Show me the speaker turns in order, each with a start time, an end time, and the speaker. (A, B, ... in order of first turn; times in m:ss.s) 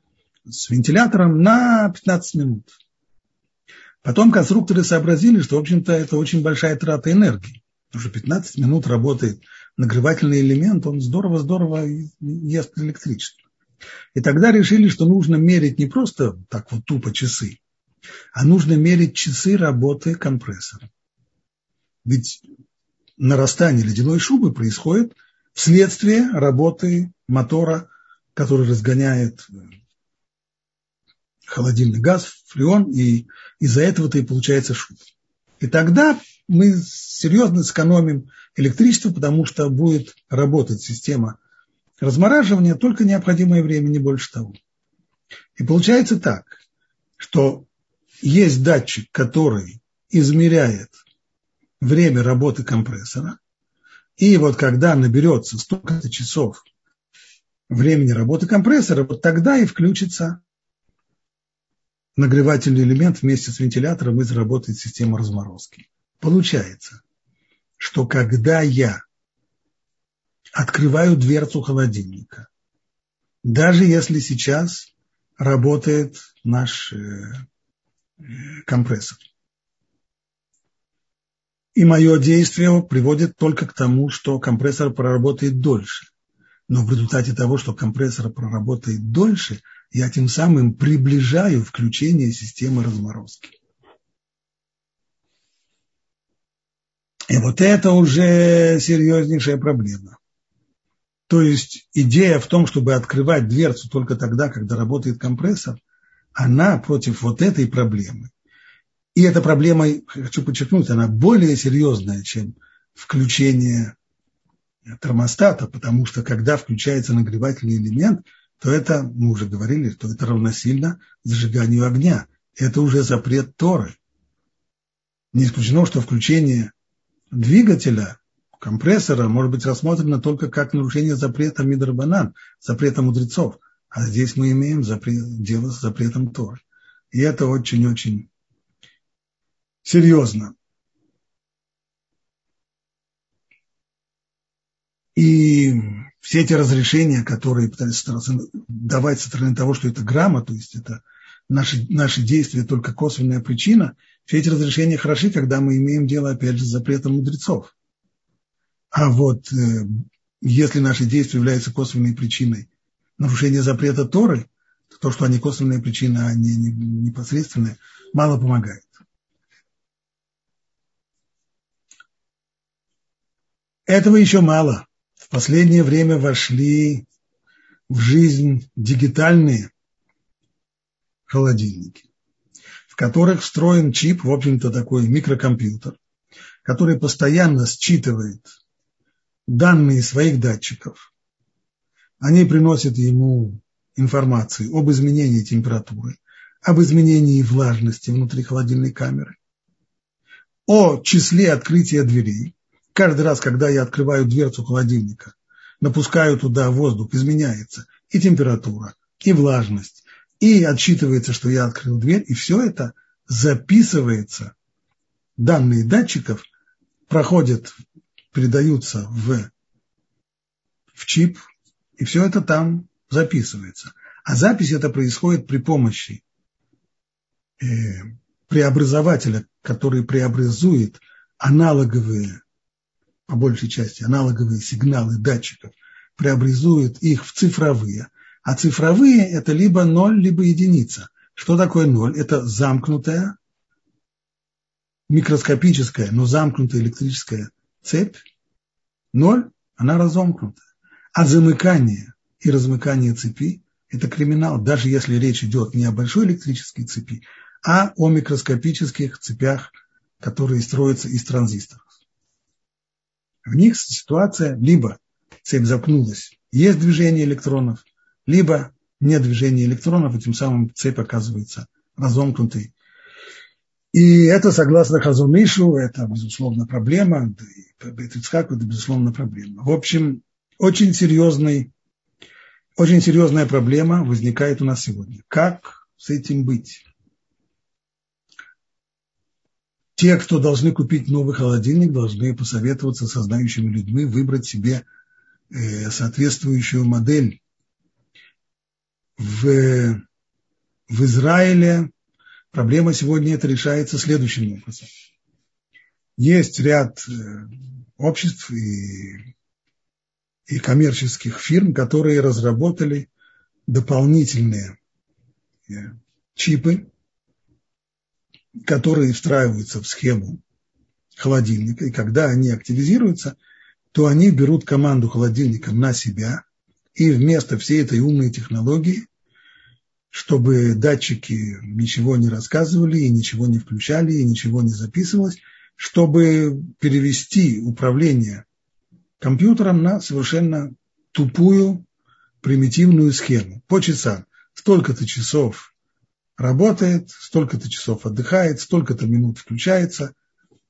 0:00.5-0:02.7 A
0:04.0-0:13.4 A
0:14.1-0:17.6 A
0:18.3-0:20.9 A
0:22.0-0:22.4 A
0:23.2-0:29.5 A
0:31.5-0:35.0 A
0:35.6-0:41.4 A
0:42.0-0:44.6 A
0:45.6-0:46.6 A
0:47.2-0:47.7 A
0:48.2-0:51.0 A
0:51.8-0:53.4 A
0:54.2-0:56.6 A
0:57.7-1:00.4 A
1:02.2-1:07.0 A
1:07.8-1:09.0 A
1:10.5-1:12.5 A
1:13.4-1:17.4 A
1:18.3-1:19.2 A
1:21.7-1:26.1 A
1:26.7-1:33.5 A
1:37.3-1:40.2 A
1:41.3-1:45.8 A
1:46.4-1:48.3 A
1:49.1-1:53.9 A
1:54.9-2:04.0 A
2:05.3-2:06.7 A
2:07.3-2:16.6 A
2:17.1-2:18.3 A
2:19.8-2:20.5 A
2:25.2-2:37.7 A
2:38.9-2:49.0 A
2:53.9-2:57.0 A
2:57.9-2:59.7 A
3:01.3-3:02.0 A
3:02.9-3:06.0 A
3:06.6-3:08.5 A
3:09.5-3:11.0 A
3:12.2-3:19.4 A
3:20.7-3:34.5 A
3:35.4-3:36.4 A
3:37.1-3:37.8 A
3:38.3-3:39.5 A
3:41.0-3:41.4 A
3:42.0-3:46.2 A
3:47.6-3:52.4 A
3:53.3-4:03.3 A
4:05.1-4:08.2 A
4:09.1-4:10.6 A
4:11.1-4:21.8 A
4:23.4-4:32.7 A
4:33.9-4:41.7 A
4:42.8-4:46.8 A
4:50.0-4:54.8 A
4:55.5-4:57.4 A
4:59.2-5:00.0 A
5:00.9-5:01.9 A
5:02.5-5:04.9 A
5:06.2-5:09.2 A
5:10.5-5:13.1 A
5:13.7-5:14.7 A
5:15.7-5:16.9 A
5:18.6-5:20.4 A
5:21.2-5:23.4 A
5:23.9-5:26.4 A
5:27.0-5:29.1 A
5:30.1-5:38.4 A
5:39.2-5:41.8 A
5:42.4-5:45.7 A
5:46.4-5:50.1 A